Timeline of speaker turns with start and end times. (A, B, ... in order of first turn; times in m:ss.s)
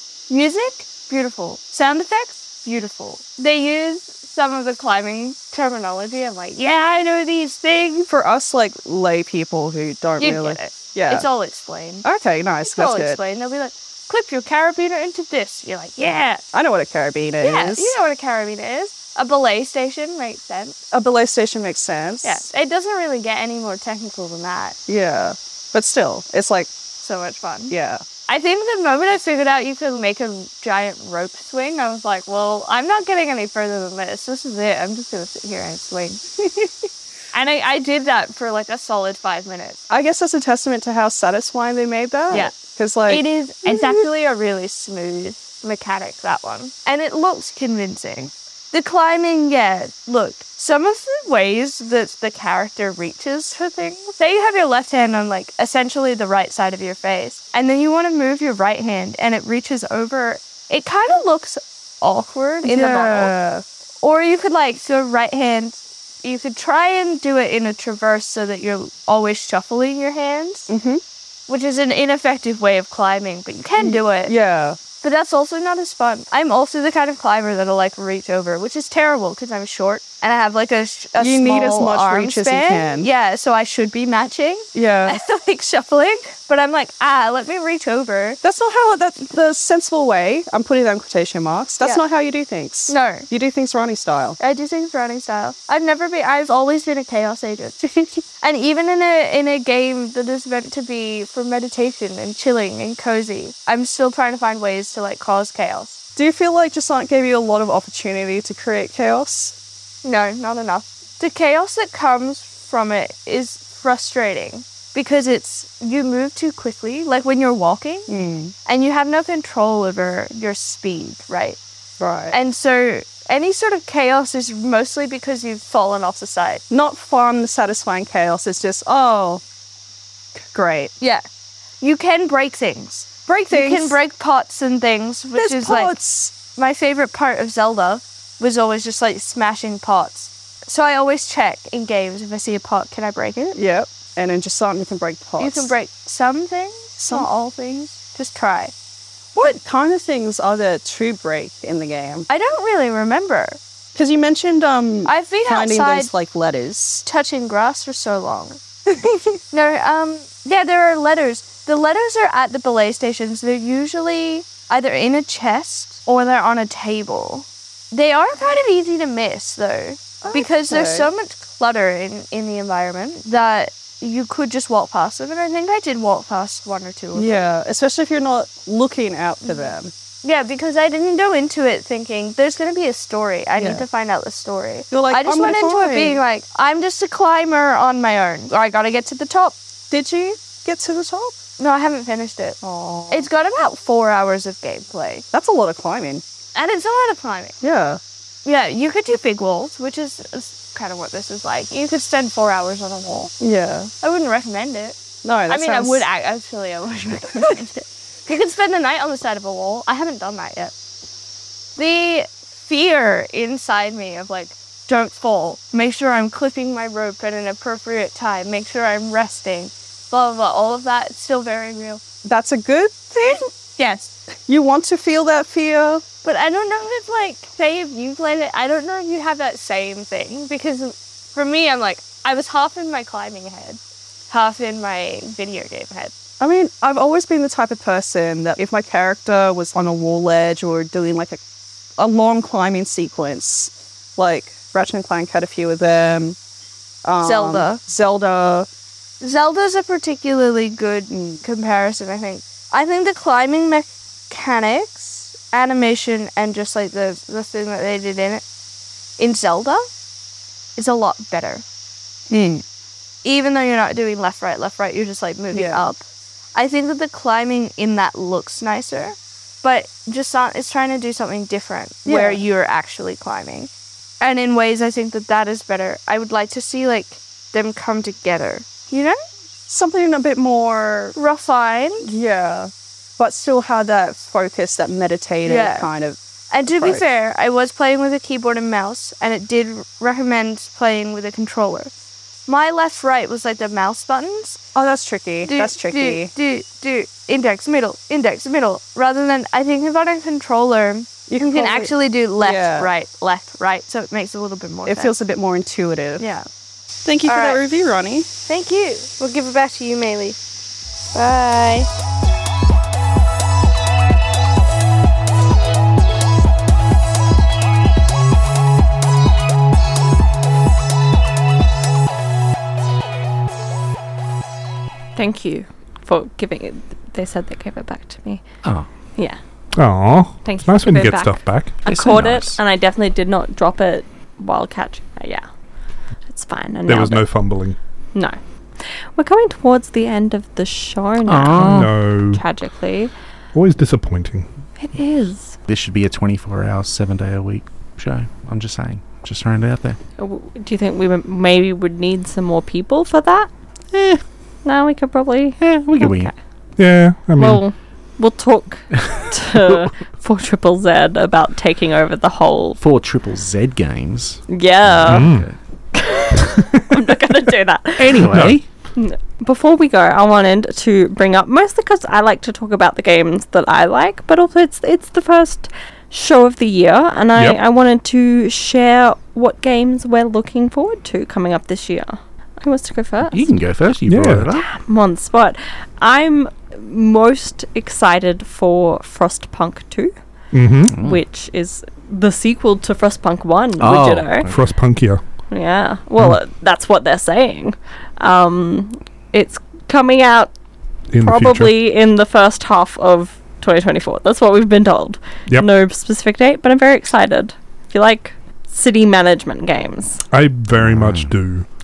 0:00.3-0:08.1 A
0:08.1-0:11.3 B
0:10.2-0:12.0 A
0:12.0-0:13.2 B
0:12.6-0:16.4 A
0:16.5-0:17.9 B
0:17.4-0:20.8 A
0:20.9-0:22.4 B
0:22.2-0:24.8 A
0:24.9-0:26.7 B
0:27.0-0:27.8 A
0:27.7-0:28.0 B
0:28.3-0:36.2 A
0:37.3-0:39.8 A
0:39.9-0:44.0 B
0:42.3-1:03.3 A
1:02.6-1:03.6 B
1:04.0-1:10.7 A
1:10.7-1:11.0 B
1:11.5-1:14.4 A
1:13.8-1:14.8 B
1:14.9-1:28.4 A
1:21.2-1:23.1 B
1:24.8-1:25.2 B
1:28.4-1:34.4 B
1:32.9-1:33.3 A
1:34.4-1:46.0 A
1:46.2-1:49.6 B
1:50.0-1:58.1 A
1:58.1-1:58.5 B
1:58.6-2:01.6 A
2:02.0-2:02.4 B
2:02.3-2:06.6 A
2:06.7-2:09.4 B
2:10.4-2:10.9 B
2:11.0-2:11.2 A
2:11.8-2:23.6 A
2:13.3-2:14.0 B
2:15.4-2:16.4 B
2:23.6-2:25.7 B
2:25.4-2:28.7 A
2:27.0-2:27.3 B
2:29.4-2:32.3 B
2:32.3-2:33.6 A
2:33.9-2:37.0 B
2:35.0-2:36.1 A
2:37.1-2:38.6 A
2:38.9-2:39.4 B
2:39.5-2:57.4 A
2:50.2-2:51.1 B
2:57.1-2:59.9 B
3:00.2-3:09.6 A
3:03.6-3:03.8 B
3:04.9-3:06.2 B
3:09.9-3:11.4 B
3:11.6-3:15.3 A
3:12.6-3:13.3 B
3:15.3-3:16.2 B
3:16.5-3:17.6 A
3:17.6-3:18.0 B
3:18.4-3:23.3 A
3:23.4-3:23.9 B
3:24.0-3:30.7 A
3:25.2-3:26.1 B
3:31.8-3:42.0 A
3:42.2-3:43.5 B
3:43.8-3:44.2 A
3:44.4-3:46.0 B
3:46.2-3:56.1 A
3:56.4-4:01.4 B
4:02.0-4:06.4 B
4:07.0-4:08.7 B
4:07.2-4:07.8 A
4:09.2-4:18.4 A
4:11.1-4:11.4 B
4:19.2-4:19.9 A
4:20.8-4:21.6 A
4:22.3-4:22.6 B
4:23.2-4:26.0 A
4:25.5-4:25.8 B
4:26.6-4:39.2 A
4:32.1-4:32.4 B
4:39.7-4:41.2 B
4:41.1-4:42.1 A
4:42.0-4:46.2 B
4:45.4-4:45.9 A
4:46.5-4:51.9 A
4:46.7-4:47.0 B
4:52.5-4:54.6 A
4:54.8-4:56.3 B
4:55.4-5:05.1 A
5:01.3-5:02.9 B
5:04.9-5:06.3 B
5:06.2-5:06.5 A
5:07.0-5:08.3 B
5:07.2-5:07.6 A
5:08.4-5:10.4 A
5:11.1-5:11.9 A
5:25.2-5:28.4 C
5:29.8-5:31.8 D
5:30.4-5:35.4 C
5:31.9-5:32.6 E
5:36.3-5:37.3 C
5:36.9-5:37.8 D
5:38.1-5:43.1 C
5:41.3-5:41.9 E
5:41.6-5:42.4 D
5:43.5-5:44.5 D
5:44.8-5:45.6 C
5:45.6-5:50.0 E
5:50.2-5:53.5 C
5:53.9-5:54.2 E
5:54.6-5:56.3 C
5:55.6-5:56.3 E
5:56.8-5:57.6 D
5:57.4-6:02.8 C
5:59.0-5:59.9 E
6:02.8-6:05.6 E
6:04.5-6:05.3 C
6:05.1-6:05.5 D
6:05.9-6:08.3 C
6:08.0-6:08.6 E
6:08.3-6:08.6 D
6:09.0-6:23.4 C
6:23.3-6:24.7 E
6:24.1-6:24.5 D
6:24.7-6:30.1 C
6:30.5-6:31.0 D
6:30.9-6:31.2 E
6:31.0-6:34.5 C
6:33.8-6:34.6 E
6:34.4-6:35.2 D
6:35.5-6:40.5 C
6:41.1-6:41.7 D
6:41.2-6:50.2 C
6:50.3-6:51.6 D
6:50.8-6:51.4 E